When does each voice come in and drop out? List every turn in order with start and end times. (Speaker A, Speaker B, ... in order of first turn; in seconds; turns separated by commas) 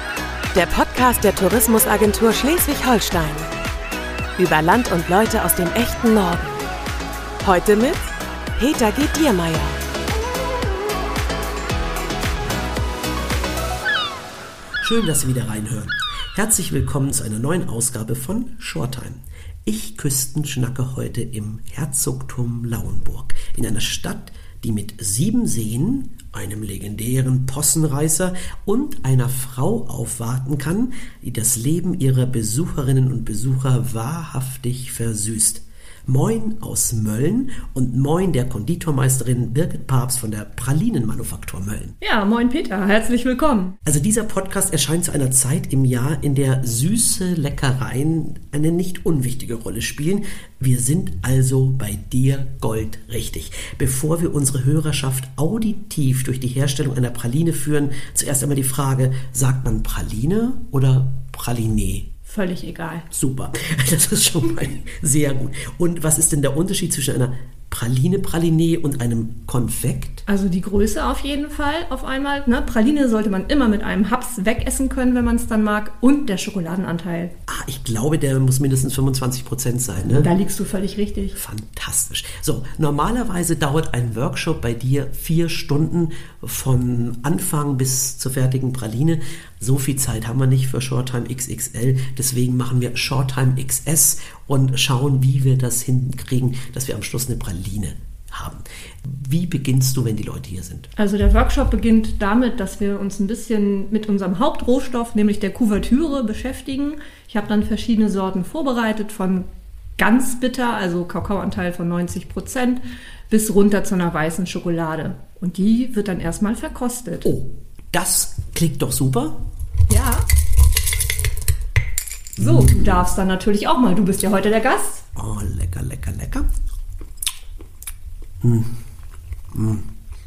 Speaker A: 0.5-3.5, Speaker A: 4.4-6.6, Speaker A: 7.4-8.0, Speaker A: 8.6-9.8, Speaker B: 14.8-42.0, Speaker C: 42.0-43.8, Speaker B: 43.8-62.1, Speaker C: 62.3-63.1, Speaker B: 63.1-70.2, Speaker C: 70.3-77.3, Speaker B: 77.5-80.3, Speaker C: 80.0-81.4, Speaker B: 81.3-100.9, Speaker C: 101.0-109.5, Speaker C: 110.0-117.3, Speaker B: 117.2-119.5, Speaker C: 119.9-120.2, Speaker C: 122.4-125.0, Speaker B: 122.4-123.0, Speaker B: 125.2-126.5, Speaker B: 128.4-128.8, Speaker B: 129.5-129.9